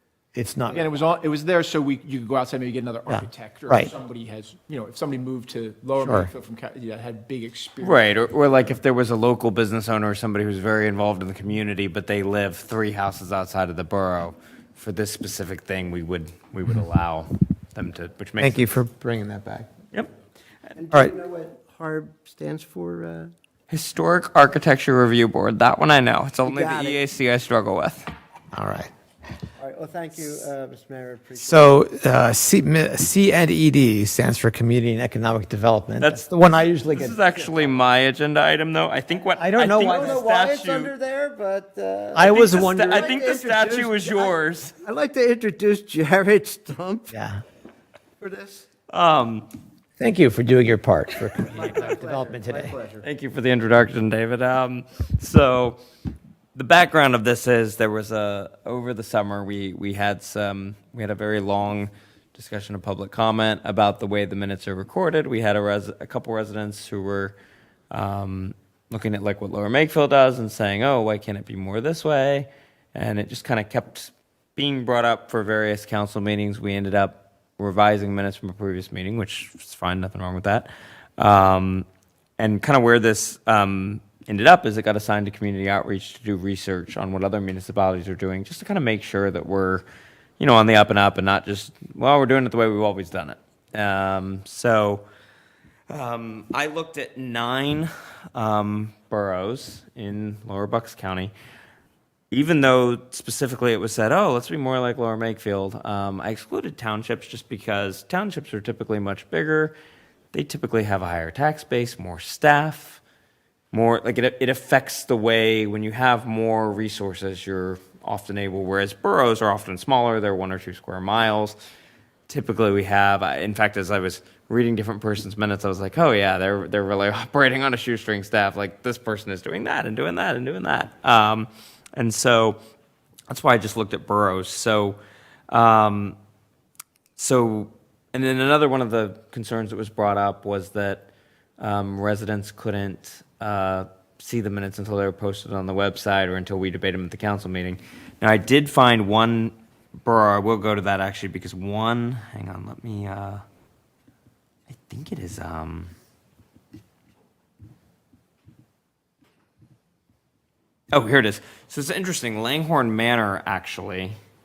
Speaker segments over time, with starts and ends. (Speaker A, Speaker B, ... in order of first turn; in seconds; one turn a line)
Speaker A: 0.3-0.8
Speaker B: 0.7-8.0
Speaker A: 3.1-3.9
Speaker A: 6.0-6.3
Speaker C: 7.8-18.7
Speaker A: 18.4-19.7
Speaker D: 20.8-23.3
Speaker C: 23.7-28.1
Speaker D: 26.4-27.0
Speaker A: 28.5-28.9
Speaker D: 29.6-31.8
Speaker A: 31.4-37.2
Speaker C: 36.0-36.3
Speaker C: 36.9-40.9
Speaker D: 37.4-37.7
Speaker A: 39.4-40.2
Speaker D: 39.6-47.1
Speaker A: 42.1-43.1
Speaker C: 42.2-44.8
Speaker A: 47.1-47.4
Speaker D: 48.2-48.7
Speaker C: 48.9-49.5
Speaker A: 50.0-52.7
Speaker D: 51.4-53.1
Speaker C: 53.0-55.8
Speaker C: 56.5-67.4
Speaker C: 67.9-81.9
Speaker C: 82.4-89.9
Speaker C: 90.4-95.0
Speaker C: 95.9-101.3
Speaker C: 102.3-109.8
Speaker C: 110.3-113.0
Speaker C: 113.7-121.6
Speaker C: 122.3-132.6
Speaker C: 133.3-135.0
Speaker C: 135.5-136.2
Speaker C: 137.2-153.4
Speaker C: 154.7-155.9
Speaker C: 160.9-164.2